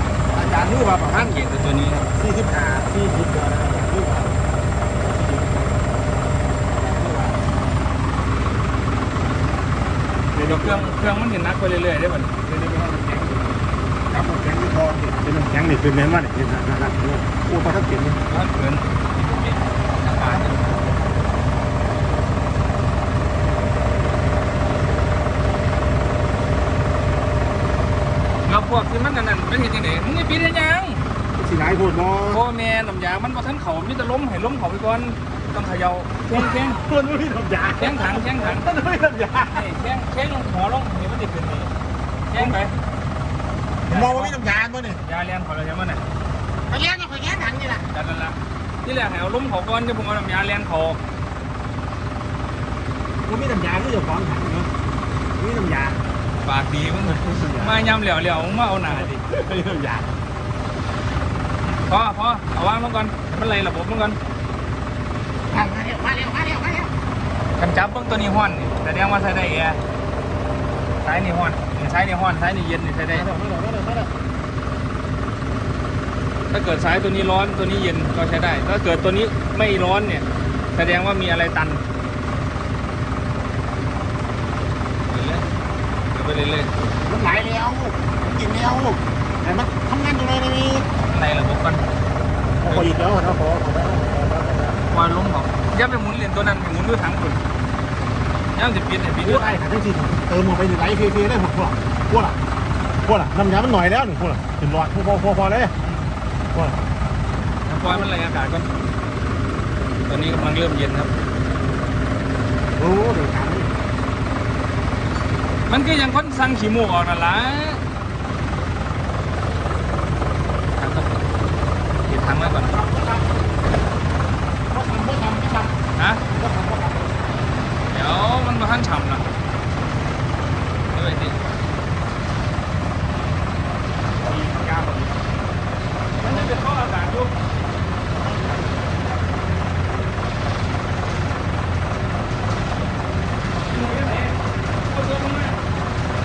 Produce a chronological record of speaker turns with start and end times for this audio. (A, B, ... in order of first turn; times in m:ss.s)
0:00.3-0:01.4 A
0:01.1-0:02.1 B
0:02.1-0:04.4 A
0:05.1-0:05.7 A
0:06.7-0:07.5 A
0:10.3-0:10.9 A
0:10.4-0:12.4 B
0:12.4-0:18.2 A
0:18.3-0:21.0 B
0:28.4-0:31.0 B
0:31.4-0:32.4 A
0:32.3-0:36.8 B
0:36.3-0:39.7 A
0:37.7-0:38.7 B
0:39.5-0:41.7 B
0:42.3-0:42.7 B
0:43.9-0:44.4 B
0:43.9-0:45.0 A
0:44.9-0:46.0 B
0:46.7-0:47.8 A
0:47.9-0:51.0 B
0:53.2-0:54.7 A
0:55.3-0:56.0 A
0:56.4-0:59.2 B
0:57.1-0:57.8 A
0:58.9-1:00.1 A
1:01.6-1:04.2 B
1:05.5-1:06.9 A
1:07.6-1:09.8 B
1:11.0-1:13.3 B
1:13.1-1:14.1 A
1:16.5-1:21.8 B
1:25.1-1:25.4 B
1:26.1-1:26.7 B
1:27.0-1:30.9 A
1:31.0-1:31.8 B
1:32.6-1:34.8 A
1:34.9-1:37.4 B
1:38.5-1:39.6 B
1:39.2-1:42.4 A
1:43.0-1:45.7 A
1:46.5-1:46.8 A
1:47.6-1:48.7 B
1:50.0-1:51.1 B
1:52.7-1:53.7 A
1:55.7-1:57.8 B
2:00.7-2:01.1 B
2:02.1-2:02.8 B
2:02.4-2:03.3 A
2:04.7-2:05.7 A
2:06.0-2:06.2 B
2:06.3-2:07.1 A
2:07.9-2:09.3 B
2:10.9-2:11.4 B
2:14.2-2:15.2 A
2:16.2-2:17.3 B
2:16.2-2:16.5 A
2:23.7-2:25.6 B